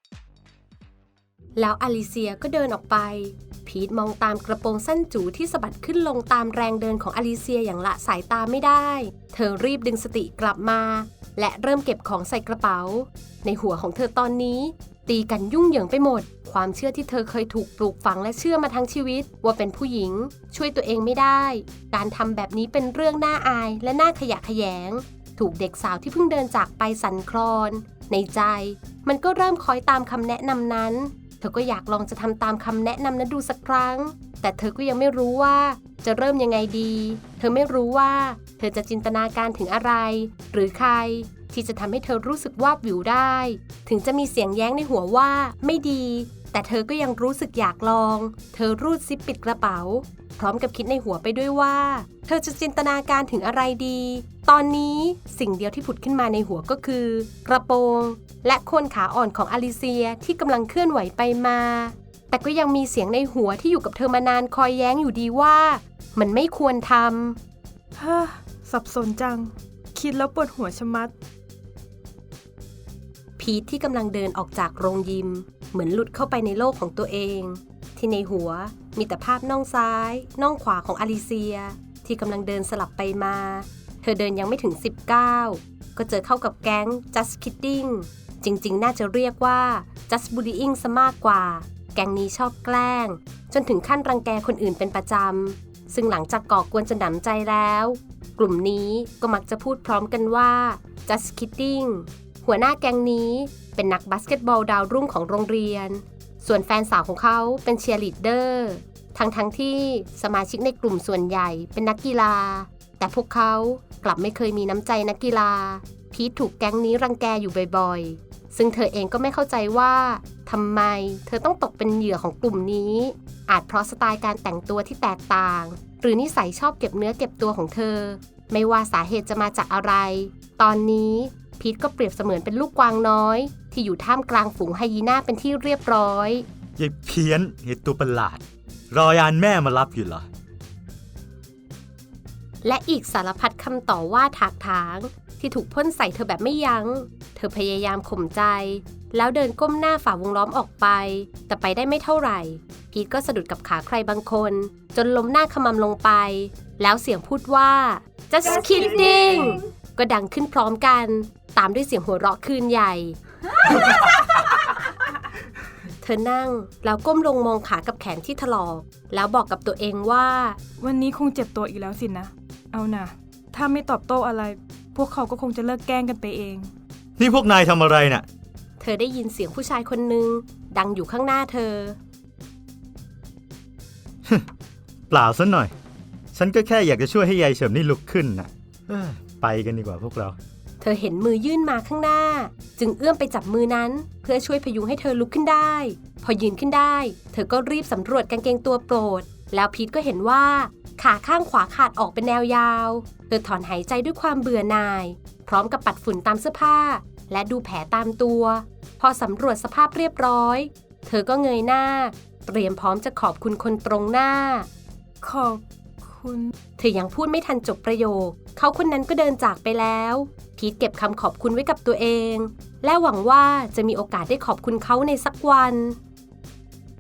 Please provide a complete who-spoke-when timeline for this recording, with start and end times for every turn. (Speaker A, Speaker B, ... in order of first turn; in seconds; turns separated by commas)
Speaker A: 1.6-67.4, Speaker B: 68.0-71.1, Speaker A: 73.4-136.5, Speaker C: 136.8-140.3, Speaker A: 142.6-163.2, Speaker A: 166.0-170.6, Speaker B: 170.8-176.7, Speaker C: 177.2-178.2, Speaker A: 178.8-182.0, Speaker C: 185.1-185.7, Speaker C: 186.3-190.4, Speaker A: 190.8-214.7, Speaker B: 215.2-216.5, Speaker A: 216.8-226.0